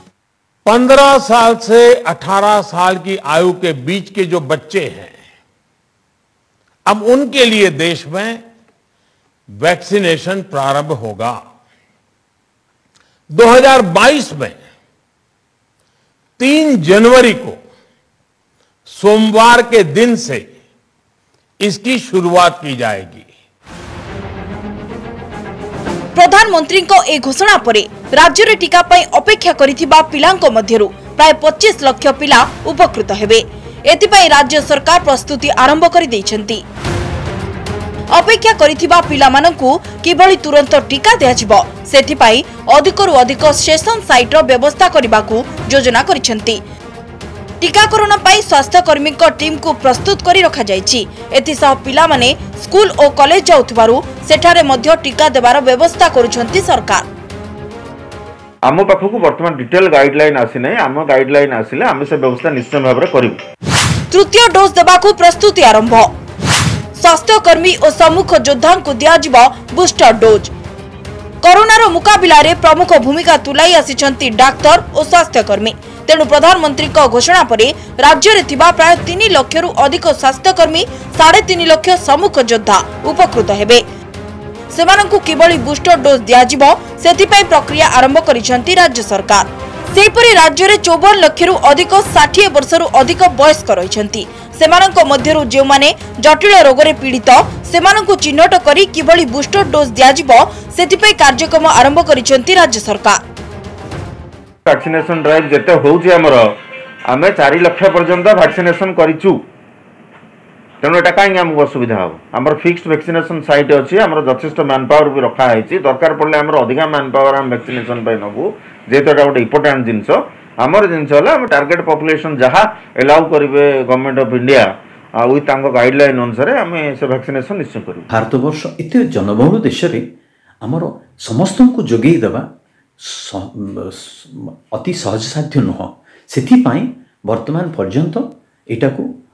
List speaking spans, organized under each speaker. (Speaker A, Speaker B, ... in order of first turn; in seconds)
Speaker A: 0.6-5.1, 6.8-8.4, 9.6-11.4, 13.3-14.6, 16.4-17.6, 18.9-20.4, 21.6-23.3
Speaker B: 26.1-36.6, 38.1-46.6, 47.6-57.0, 64.1-66.1, 67.0-70.5, 71.4-83.8, 84.7-103.2
Speaker C: 58.6-63.4, 104.7-106.5, 107.1-109.4, 110.8-128.1
Speaker D: 128.1-130.0, 130.6-132.5, 133.0-139.1